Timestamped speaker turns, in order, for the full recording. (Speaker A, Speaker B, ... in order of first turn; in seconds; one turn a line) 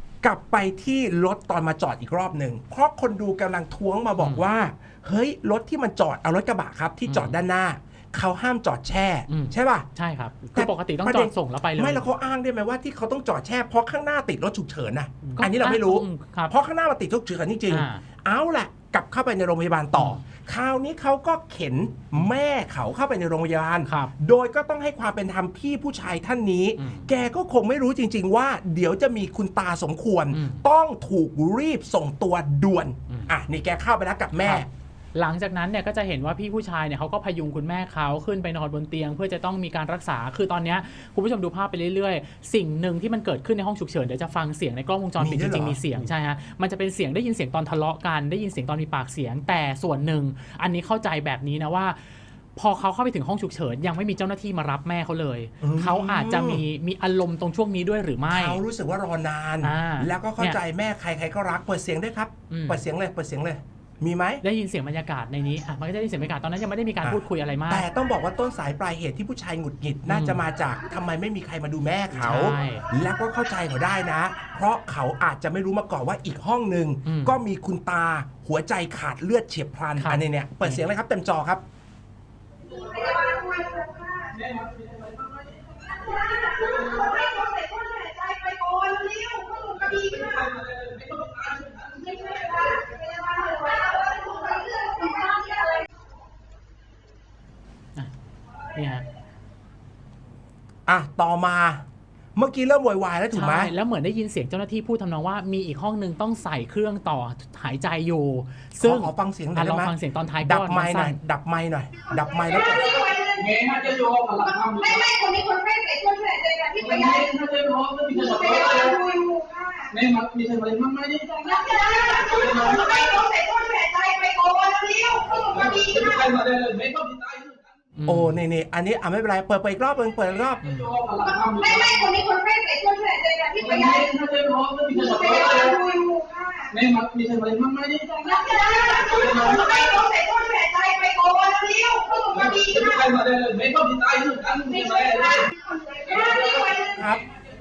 Speaker A: 0.2-9.9
Speaker B: 9.3-12.1
Speaker A: 10.5-34.7
Speaker B: 15.2-16.5
Speaker B: 17.7-18.0
Speaker B: 23.9-24.1
Speaker B: 26.8-27.1
Speaker B: 30.3-30.6
Speaker B: 34.4-58.6
Speaker A: 45.2-46.1
Speaker A: 55.6-56.6
Speaker A: 58.3-64.4
Speaker B: 59.6-60.6
Speaker B: 62.5-62.8
Speaker B: 64.4-67.9
Speaker A: 67.0-81.6
Speaker B: 70.1-70.4
Speaker B: 72.1-72.9
Speaker B: 77.0-77.4
Speaker B: 80.0-80.8
Speaker C: 82.7-84.3
Speaker D: 82.9-83.2
Speaker D: 84.3-87.1
Speaker C: 85.9-90.6
Speaker D: 89.9-92.8
Speaker C: 92.0-95.8
Speaker B: 98.7-99.0
Speaker A: 100.9-101.8
Speaker A: 102.3-103.7
Speaker B: 103.3-111.2
Speaker A: 108.8-113.0
Speaker C: 112.1-117.3
Speaker D: 112.8-115.1
Speaker D: 116.8-119.0
Speaker C: 118.1-119.9
Speaker D: 119.9-121.6
Speaker C: 121.4-126.3
Speaker D: 122.2-123.1
Speaker D: 125.5-127.7
Speaker B: 127.9-128.4
Speaker A: 128.1-130.6
Speaker B: 130.6-131.0
Speaker D: 130.6-132.1
Speaker C: 131.2-134.1
Speaker D: 133.6-135.9
Speaker C: 134.9-136.7
Speaker D: 136.7-138.3
Speaker C: 138.2-143.1
Speaker D: 139.0-139.9
Speaker D: 142.3-145.5
Speaker C: 144.7-147.0
Speaker D: 146.1-147.2
Speaker A: 146.9-147.2